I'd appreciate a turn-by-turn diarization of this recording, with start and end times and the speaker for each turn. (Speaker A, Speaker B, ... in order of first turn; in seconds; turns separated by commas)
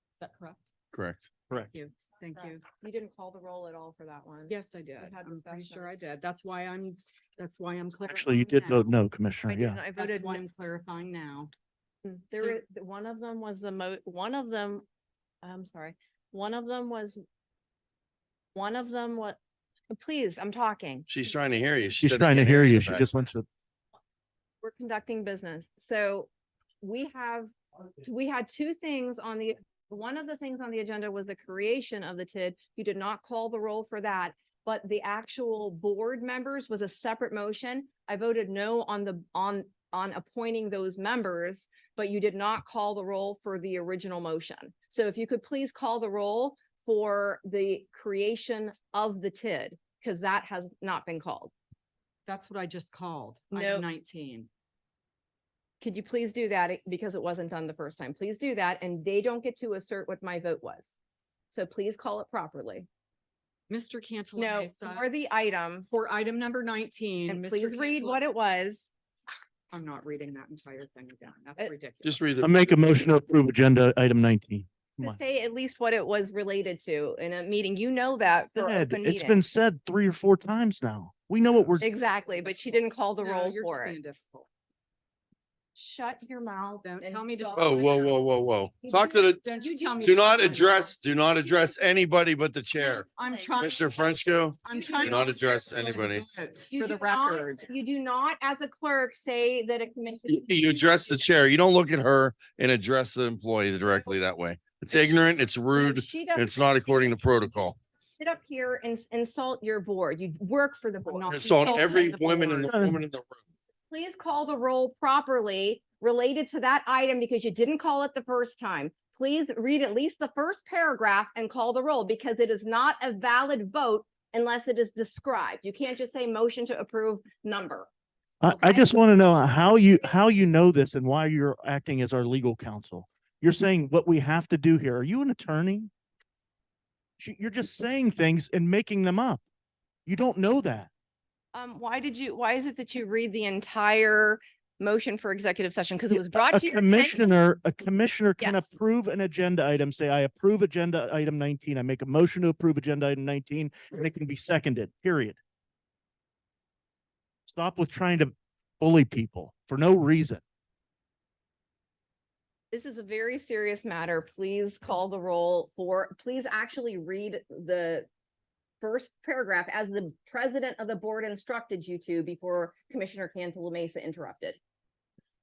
Speaker A: 0.2-0.7, Speaker B: 0.9-1.2, Speaker A: 1.7-2.6, Speaker C: 2.4-5.9, Speaker A: 4.5-8.9, Speaker D: 8.1-9.8, Speaker C: 9.5-10.4, Speaker A: 9.9-11.5, Speaker C: 12.0-14.8, Speaker A: 12.3-12.6, Speaker C: 15.4-17.2, Speaker C: 18.5-19.4, Speaker C: 19.9-21.1, Speaker B: 21.1-23.1, Speaker D: 22.0-23.4, Speaker C: 24.6-26.3, Speaker C: 26.8-51.5, Speaker A: 52.2-54.5, Speaker C: 53.5-53.8, Speaker C: 55.8-60.9, Speaker C: 61.5-62.9, Speaker A: 63.7-65.1, Speaker C: 64.4-65.9, Speaker A: 65.9-68.2, Speaker C: 67.3-68.9, Speaker A: 69.7-72.2, Speaker B: 72.0-72.6, Speaker D: 72.4-75.2, Speaker C: 75.0-79.4, Speaker D: 78.5-81.9, Speaker A: 81.4-84.5, Speaker C: 81.8-84.0, Speaker C: 85.7-87.8, Speaker A: 86.8-88.2, Speaker B: 87.5-89.4, Speaker C: 88.8-90.6, Speaker A: 89.4-91.0, Speaker B: 90.0-93.1, Speaker C: 92.8-93.6, Speaker A: 93.2-93.9, Speaker B: 93.6-96.3, Speaker A: 94.6-97.7, Speaker C: 94.7-95.3, Speaker C: 96.7-100.9, Speaker B: 100.3-107.8, Speaker C: 105.7-107.0, Speaker C: 108.0-112.4, Speaker A: 111.0-112.7, Speaker B: 111.3-113.4, Speaker D: 112.7-113.0, Speaker C: 113.9-127.9, Speaker D: 128.4-135.9, Speaker A: 128.5-128.9, Speaker D: 137.2-139.4, Speaker D: 140.1-140.9, Speaker C: 141.5-147.3, Speaker D: 146.1-155.4, Speaker C: 148.4-148.6, Speaker D: 157.5-160.4, Speaker C: 162.7-168.1, Speaker C: 168.8-174.6